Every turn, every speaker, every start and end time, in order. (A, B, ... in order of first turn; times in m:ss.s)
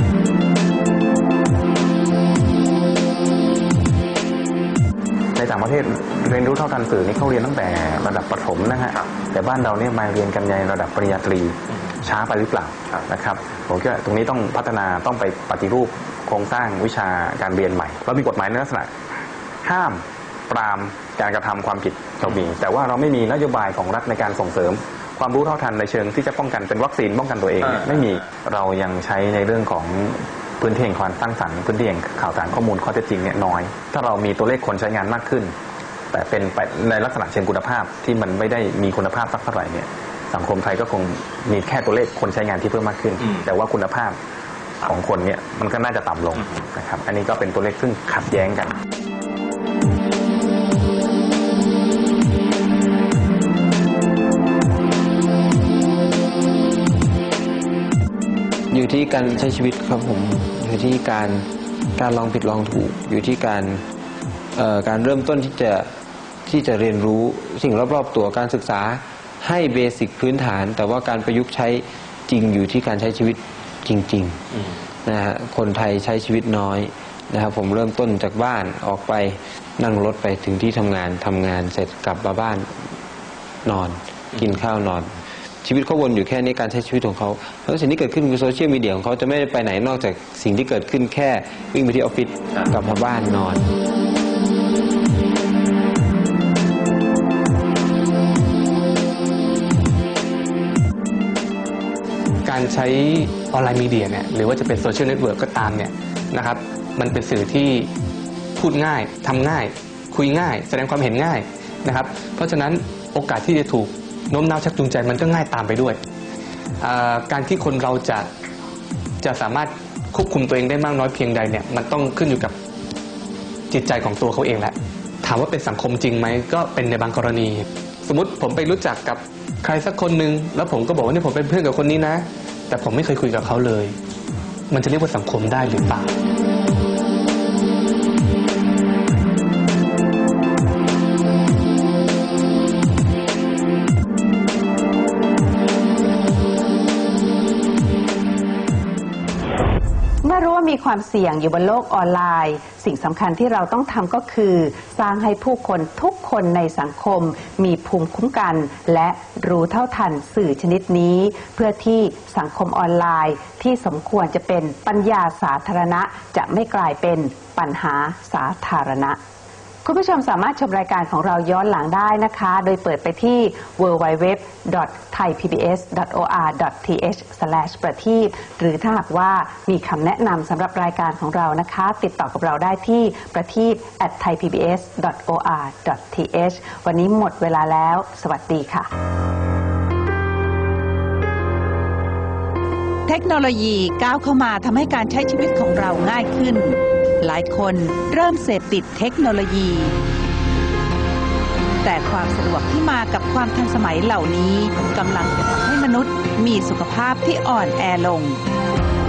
0:05.3-0:18.9 A
0:19.6-0:35.5 A
0:36.1-0:44.2 A
0:44.8-0:48.8 A
0:58.7-1:03.8 B
1:04.5-1:05.9 B
1:06.4-1:14.4 B
1:15.0-1:22.9 B
1:23.6-1:33.7 B
1:42.4-1:47.9 C
1:48.6-1:56.0 C
1:56.8-1:58.3 C
1:59.2-2:02.6 C
2:03.7-2:14.0 C
2:14.7-2:16.1 C
2:30.3-2:34.5 D
2:32.4-2:49.2 E
2:35.1-2:35.6 D
2:49.8-3:08.9 E
3:13.1-3:20.0 D
3:21.8-3:28.4 D